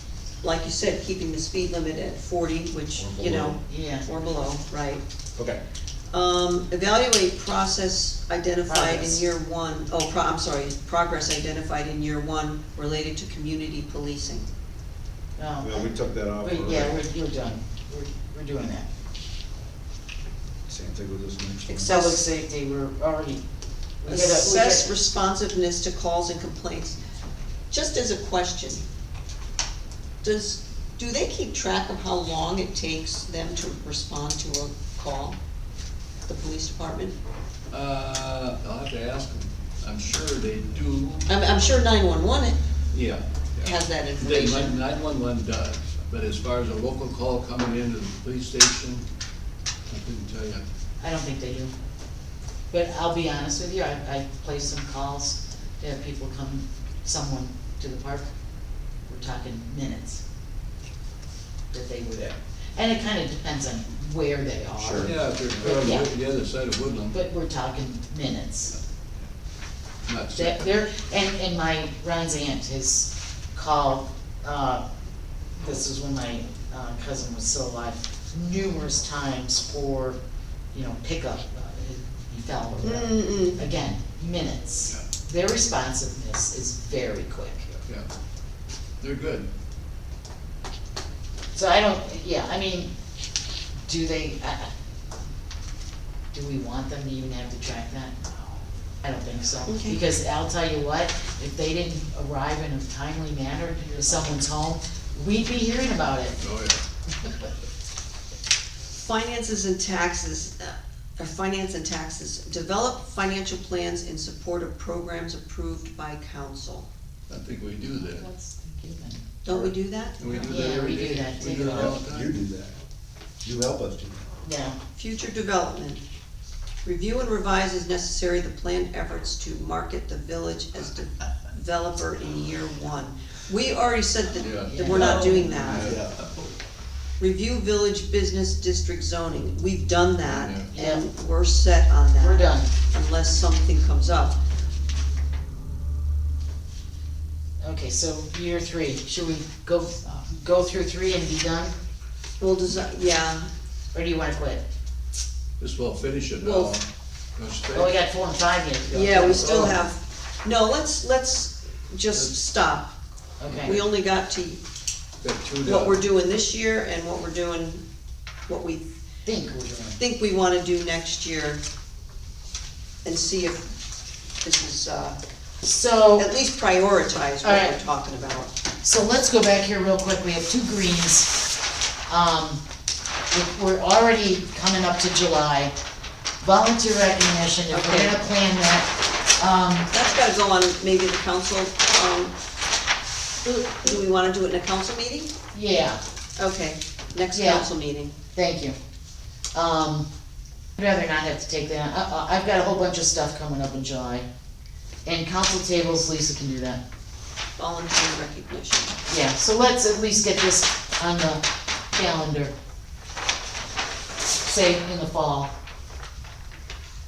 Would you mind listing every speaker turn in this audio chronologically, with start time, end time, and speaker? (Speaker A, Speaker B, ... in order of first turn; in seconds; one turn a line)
Speaker A: 0.4-5.0
Speaker B: 3.0-3.6
Speaker C: 3.7-4.1
Speaker A: 6.1-14.5
Speaker C: 8.7-9.2
Speaker C: 15.4-18.9
Speaker B: 15.6-17.0
Speaker B: 20.7-21.9
Speaker A: 21.7-22.2
Speaker C: 21.9-23.4
Speaker C: 24.0-24.9
Speaker A: 24.1-27.0
Speaker A: 27.7-28.8
Speaker A: 30.2-35.4
Speaker A: 36.3-37.1
Speaker D: 37.7-41.2
Speaker A: 41.3-42.6
Speaker D: 42.9-49.0
Speaker A: 43.6-44.8
Speaker D: 49.9-50.6
Speaker C: 51.0-51.7
Speaker C: 52.7-58.3
Speaker C: 59.1-60.2
Speaker C: 61.7-66.1
Speaker B: 64.8-65.1
Speaker D: 65.0-67.2
Speaker C: 67.1-68.7
Speaker D: 70.1-70.7
Speaker C: 70.3-74.8
Speaker C: 75.6-80.2
Speaker C: 80.7-87.7
Speaker A: 82.8-83.6
Speaker D: 89.0-89.5
Speaker C: 91.5-92.9
Speaker C: 93.8-94.7
Speaker C: 96.3-98.5
Speaker C: 99.0-106.3
Speaker A: 99.7-100.0
Speaker D: 106.4-106.8
Speaker A: 108.9-116.9
Speaker D: 117.3-118.3
Speaker C: 117.9-119.2
Speaker A: 119.4-120.6
Speaker D: 120.2-122.3
Speaker C: 120.4-121.9
Speaker B: 121.7-122.8
Speaker B: 123.4-124.3
Speaker C: 124.4-124.8
Speaker A: 124.9-126.0
Speaker A: 126.8-135.9
Speaker D: 134.4-136.5
Speaker C: 134.6-135.6
Speaker B: 135.6-136.2
Speaker A: 137.2-144.3
Speaker D: 140.3-140.7
Speaker C: 140.7-141.0
Speaker C: 142.2-142.7
Speaker C: 147.6-151.7
Speaker A: 152.4-153.5
Speaker C: 153.9-154.6
Speaker D: 155.6-156.8
Speaker A: 156.4-156.8
Speaker D: 157.3-158.0
Speaker C: 157.7-159.8
Speaker A: 158.9-162.9
Speaker D: 159.2-159.7
Speaker C: 163.4-163.8
Speaker D: 163.4-163.8
Speaker A: 163.6-164.6
Speaker D: 165.2-166.0
Speaker A: 165.6-167.8
Speaker A: 168.5-168.9
Speaker C: 169.2-170.0
Speaker A: 170.0-171.6
Speaker A: 173.0-173.7
Speaker A: 174.4-175.2
Speaker C: 175.6-176.3
Speaker A: 176.1-178.5
Speaker C: 177.4-177.8
Speaker C: 178.8-181.3
Speaker C: 182.1-182.6
Speaker C: 183.3-185.7
Speaker C: 186.4-189.9
Speaker A: 187.7-188.2
Speaker A: 189.9-192.3
Speaker A: 193.6-195.3
Speaker C: 195.5-196.0
Speaker A: 196.4-198.1
Speaker C: 197.3-197.7
Speaker C: 198.3-198.7
Speaker C: 199.5-200.1
Speaker C: 200.8-204.2
Speaker C: 205.0-206.8
Speaker A: 207.6-208.9
Speaker C: 209.1-212.5
Speaker C: 214.4-215.5